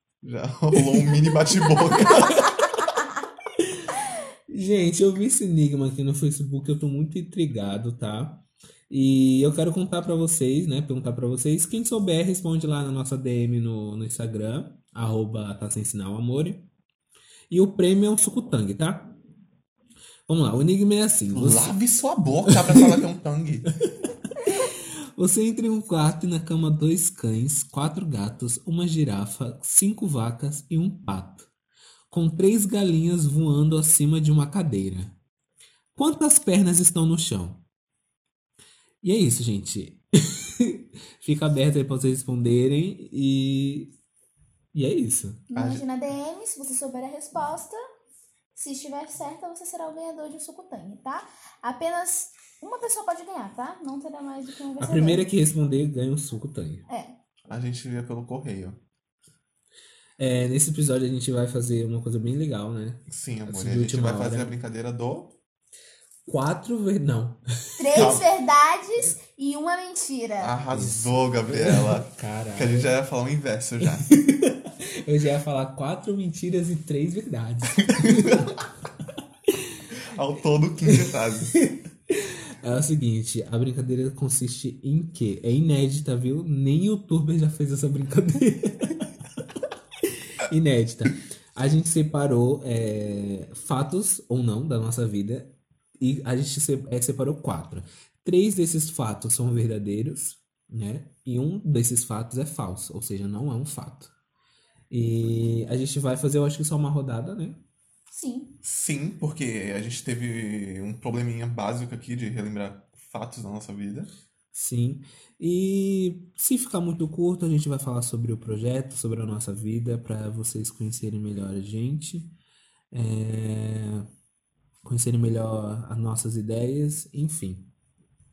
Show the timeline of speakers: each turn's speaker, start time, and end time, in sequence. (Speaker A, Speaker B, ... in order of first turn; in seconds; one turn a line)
Speaker A: 0.2-2.5
Speaker B: 1.0-2.5
Speaker B: 3.6-16.7
Speaker B: 17.5-19.1
Speaker B: 20.3-21.7
Speaker A: 21.3-23.7
Speaker B: 22.5-23.0
Speaker B: 23.9-31.5
Speaker B: 32.1-35.2
Speaker B: 36.0-37.6
Speaker B: 39.0-43.9
Speaker B: 44.7-45.4
Speaker C: 45.5-47.8
Speaker A: 45.5-45.8
Speaker C: 48.5-55.3
Speaker B: 54.8-56.9
Speaker C: 56.9-57.1
Speaker A: 57.5-58.8
Speaker B: 60.2-64.5
Speaker A: 63.1-65.3
Speaker B: 66.3-68.2
Speaker C: 67.8-70.6
Speaker A: 67.9-68.3
Speaker A: 70.4-74.1
Speaker B: 70.7-72.9
Speaker B: 73.9-78.6
Speaker A: 77.9-78.3
Speaker A: 80.1-81.5
Speaker B: 80.9-89.1
Speaker B: 90.4-104.1
Speaker B: 104.9-107.6
Speaker C: 108.1-108.5
Speaker A: 108.6-114.1
Speaker B: 114.5-122.3
Speaker B: 122.9-124.0
Speaker B: 124.8-127.7